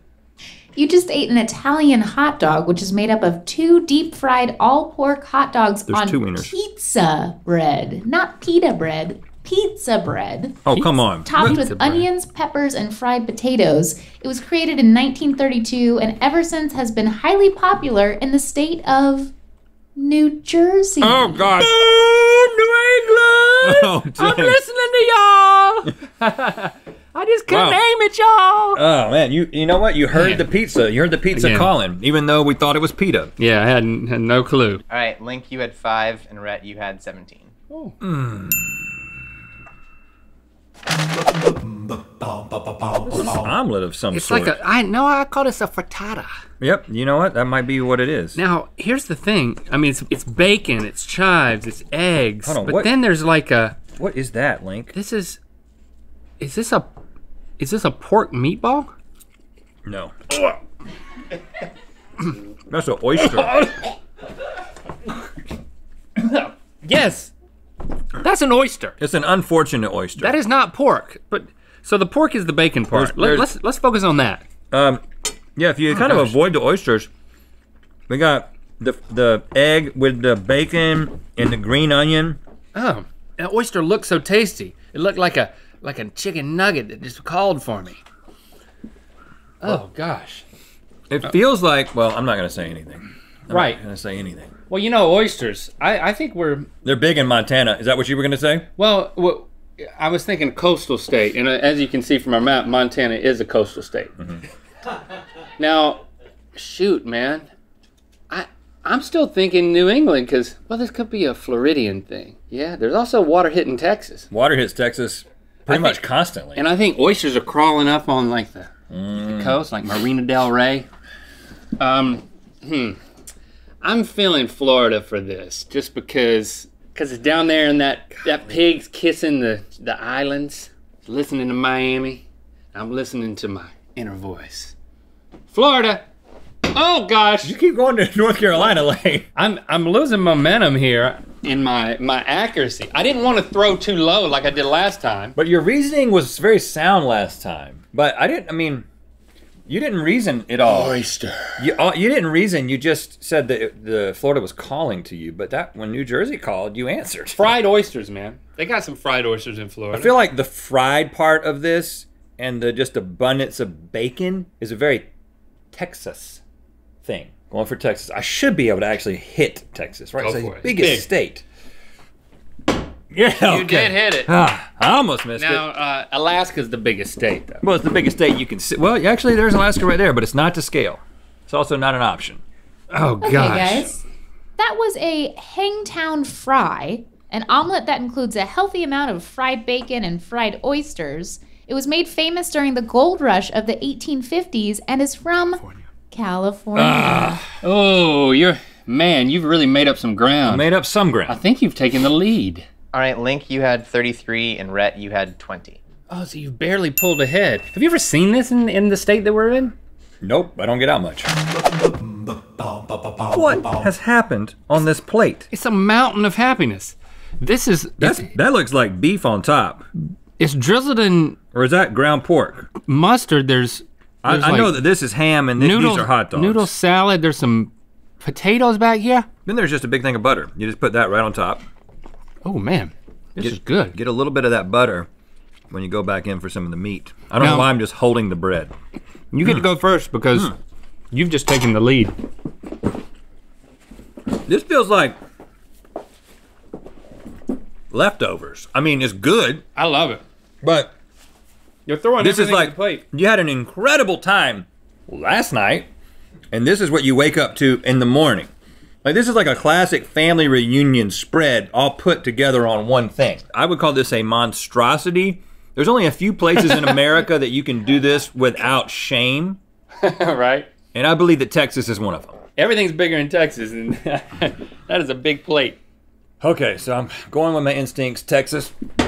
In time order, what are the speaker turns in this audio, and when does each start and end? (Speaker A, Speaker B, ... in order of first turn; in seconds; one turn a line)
Speaker A: 0.8-10.7
Speaker B: 5.9-6.5
Speaker B: 10.7-12.0
Speaker A: 11.2-19.3
Speaker A: 20.0-21.4
Speaker C: 21.0-28.8
Speaker B: 23.6-24.6
Speaker B: 27.5-27.8
Speaker B: 28.8-33.3
Speaker C: 30.1-30.5
Speaker C: 31.3-31.7
Speaker C: 33.4-34.8
Speaker D: 34.9-37.5
Speaker C: 37.7-38.0
Speaker B: 38.0-38.8
Speaker C: 43.1-43.4
Speaker B: 43.1-44.6
Speaker C: 44.1-46.3
Speaker B: 46.6-48.4
Speaker C: 48.4-53.8
Speaker B: 52.5-52.9
Speaker B: 54.0-55.0
Speaker C: 54.9-55.4
Speaker C: 56.4-56.9
Speaker C: 57.6-58.9
Speaker B: 59.9-60.1
Speaker B: 62.7-63.7
Speaker C: 63.2-63.9
Speaker C: 66.2-67.3
Speaker C: 68.2-69.0
Speaker B: 69.0-70.4
Speaker C: 70.2-74.5
Speaker B: 72.9-73.5
Speaker B: 74.7-75.0
Speaker B: 75.6-77.1
Speaker C: 75.9-76.3
Speaker B: 78.1-82.4
Speaker C: 82.8-88.0
Speaker C: 89.6-90.4
Speaker B: 91.1-94.5
Speaker C: 93.5-93.8
Speaker C: 94.7-96.7
Speaker B: 96.8-98.7
Speaker C: 98.8-104.1
Speaker C: 105.6-106.0
Speaker C: 106.5-107.5
Speaker C: 108.3-114.3
Speaker B: 114.3-116.6
Speaker C: 115.7-120.9
Speaker B: 118.9-119.6
Speaker C: 121.8-123.0
Speaker C: 123.8-134.7
Speaker C: 135.5-136.0
Speaker C: 136.7-137.6
Speaker B: 137.4-139.3
Speaker C: 139.4-145.3
Speaker B: 145.4-148.8
Speaker B: 149.7-151.0
Speaker C: 150.7-151.7
Speaker B: 151.6-157.6
Speaker C: 157.3-160.2
Speaker B: 159.9-165.1
Speaker C: 165.7-166.4
Speaker B: 167.0-171.4
Speaker C: 170.2-171.1
Speaker B: 173.1-175.7
Speaker C: 173.4-174.3
Speaker C: 175.4-177.6
Speaker B: 177.6-182.4
Speaker C: 182.9-183.9
Speaker A: 183.2-184.0
Speaker A: 184.6-195.6
Speaker A: 196.1-197.3
Speaker B: 196.8-197.6
Speaker C: 197.5-200.7
Speaker B: 200.4-201.4
Speaker C: 201.3-202.7
Speaker D: 202.9-205.8
Speaker C: 206.1-209.7
Speaker B: 210.2-211.3
Speaker B: 213.3-215.5
Speaker C: 215.5-218.3
Speaker B: 218.0-219.8
Speaker C: 220.4-221.4
Speaker B: 221.5-222.7
Speaker C: 222.8-224.8
Speaker B: 224.2-226.7
Speaker C: 225.6-227.7
Speaker C: 228.2-229.3
Speaker B: 229.4-231.6
Speaker C: 232.4-233.9
Speaker B: 233.4-235.1
Speaker B: 235.7-238.7
Speaker C: 237.4-237.7
Speaker C: 239.3-240.6
Speaker C: 241.1-242.1
Speaker B: 244.5-245.2
Speaker B: 247.9-249.6
Speaker C: 249.8-250.2
Speaker B: 250.6-250.9
Speaker C: 251.9-253.0
Speaker B: 252.2-255.9
Speaker B: 256.5-258.5
Speaker B: 259.0-269.6
Speaker C: 266.6-267.0
Speaker C: 270.0-270.7
Speaker B: 270.9-272.4
Speaker C: 272.6-275.8
Speaker B: 276.4-278.7